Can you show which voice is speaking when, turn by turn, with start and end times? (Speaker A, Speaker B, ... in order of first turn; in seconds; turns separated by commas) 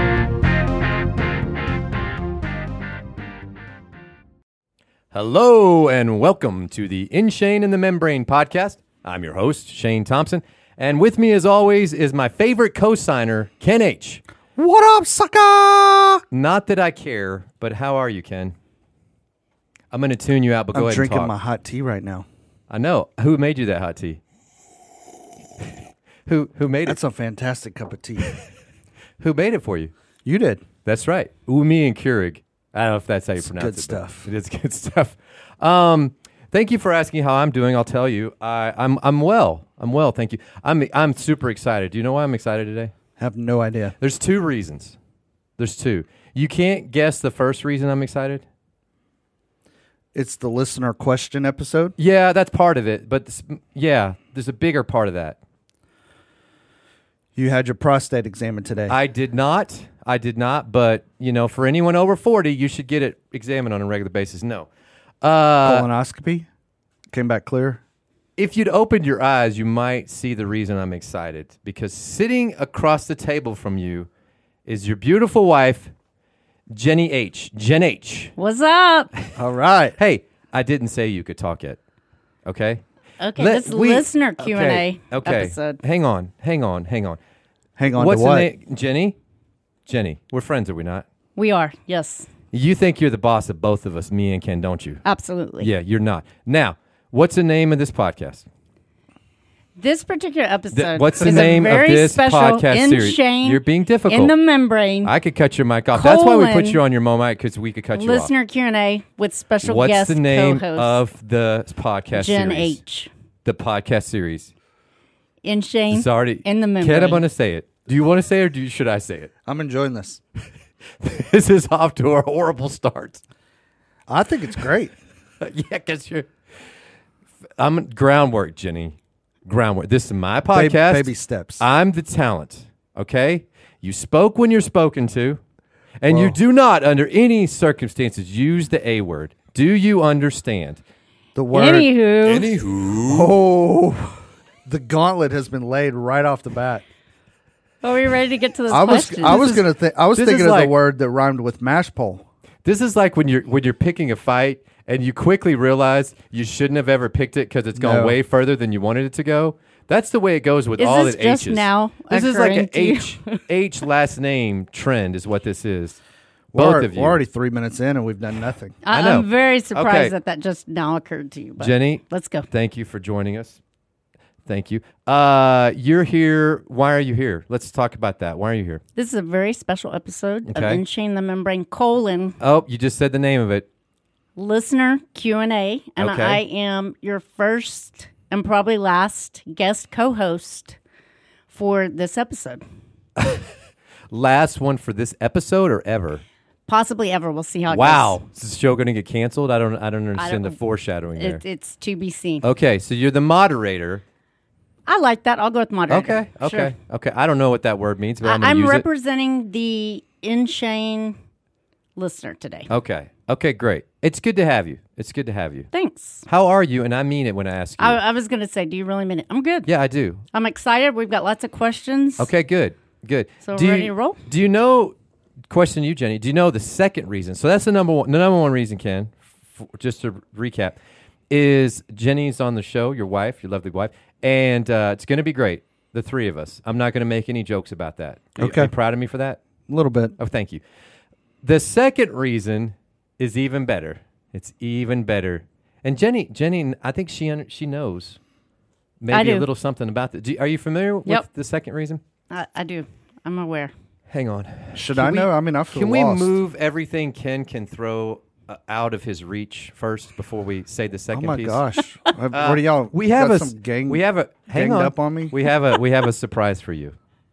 Speaker A: 5.1-14.2, Speaker B: 14.6-16.2, Speaker A: 16.3-18.6, Speaker A: 19.9-21.3, Speaker B: 20.7-22.3, Speaker A: 22.7-24.2, Speaker A: 26.3-27.0, Speaker B: 26.9-28.3, Speaker A: 29.2-29.9, Speaker B: 30.2-30.6, Speaker A: 30.9-42.9, Speaker B: 33.4-34.3, Speaker B: 43.2-44.0, Speaker A: 44.0-45.0, Speaker A: 45.6-48.4, Speaker B: 50.1-52.0, Speaker A: 52.0-55.4, Speaker B: 57.4-59.0, Speaker A: 58.9-64.7, Speaker A: 65.2-65.9, Speaker B: 65.6-66.5, Speaker B: 67.1-67.8, Speaker A: 68.4-74.1, Speaker A: 74.7-75.9, Speaker A: 76.7-78.3, Speaker C: 78.4-79.1, Speaker B: 79.4-80.0, Speaker A: 80.0-81.8, Speaker A: 82.5-82.8, Speaker C: 83.2-85.8, Speaker A: 83.4-87.2, Speaker B: 87.8-88.5, Speaker A: 87.9-89.2, Speaker A: 89.9-91.0, Speaker C: 91.4-92.3, Speaker A: 92.5-95.0, Speaker C: 95.0-95.7, Speaker A: 95.6-98.5, Speaker C: 99.8-105.1, Speaker A: 100.7-104.3, Speaker A: 105.0-108.3, Speaker C: 105.9-106.8, Speaker C: 107.9-111.0, Speaker A: 109.6-112.8, Speaker C: 112.1-113.1, Speaker A: 113.5-114.5, Speaker C: 115.4-117.2, Speaker A: 115.9-119.3, Speaker B: 119.5-120.2, Speaker A: 121.0-123.2, Speaker B: 124.1-124.9, Speaker A: 125.4-126.3, Speaker A: 127.6-128.9, Speaker A: 129.5-131.1, Speaker B: 130.5-131.7, Speaker A: 131.6-135.4, Speaker A: 136.0-140.8, Speaker B: 136.1-136.4, Speaker B: 141.3-141.9, Speaker C: 141.5-142.5, Speaker A: 142.2-143.3, Speaker B: 143.1-146.8, Speaker C: 147.8-149.6, Speaker B: 148.7-152.3, Speaker A: 149.2-150.7, Speaker A: 152.6-166.0, Speaker B: 157.8-158.2, Speaker C: 160.8-163.4, Speaker B: 166.5-168.8, Speaker A: 166.6-167.2, Speaker C: 168.8-172.5, Speaker A: 168.9-170.1, Speaker A: 171.6-173.6, Speaker A: 174.5-178.8, Speaker C: 179.0-182.4, Speaker A: 180.4-180.8, Speaker A: 182.4-183.7, Speaker C: 184.4-190.8, Speaker A: 186.0-186.4, Speaker C: 191.5-192.6, Speaker A: 193.2-193.5, Speaker A: 194.1-196.2, Speaker C: 196.7-198.2, Speaker A: 197.7-201.4, Speaker C: 200.2-200.6, Speaker C: 201.2-202.5, Speaker A: 202.4-204.0, Speaker C: 204.9-206.7, Speaker A: 205.9-208.8, Speaker C: 208.2-211.2, Speaker C: 212.0-212.7, Speaker A: 212.7-215.7, Speaker C: 215.7-216.2, Speaker A: 216.3-218.0, Speaker C: 217.8-219.7, Speaker A: 219.7-220.2, Speaker C: 220.3-222.3, Speaker A: 222.2-224.9, Speaker C: 223.4-224.2, Speaker A: 225.5-230.8, Speaker A: 231.3-239.4, Speaker B: 238.4-238.7, Speaker B: 239.7-240.2, Speaker A: 240.2-240.6, Speaker A: 241.4-248.2, Speaker A: 249.0-252.0, Speaker C: 249.1-249.5, Speaker C: 252.3-253.7, Speaker A: 254.1-261.6, Speaker B: 254.7-256.4, Speaker B: 261.1-265.4, Speaker A: 262.3-266.9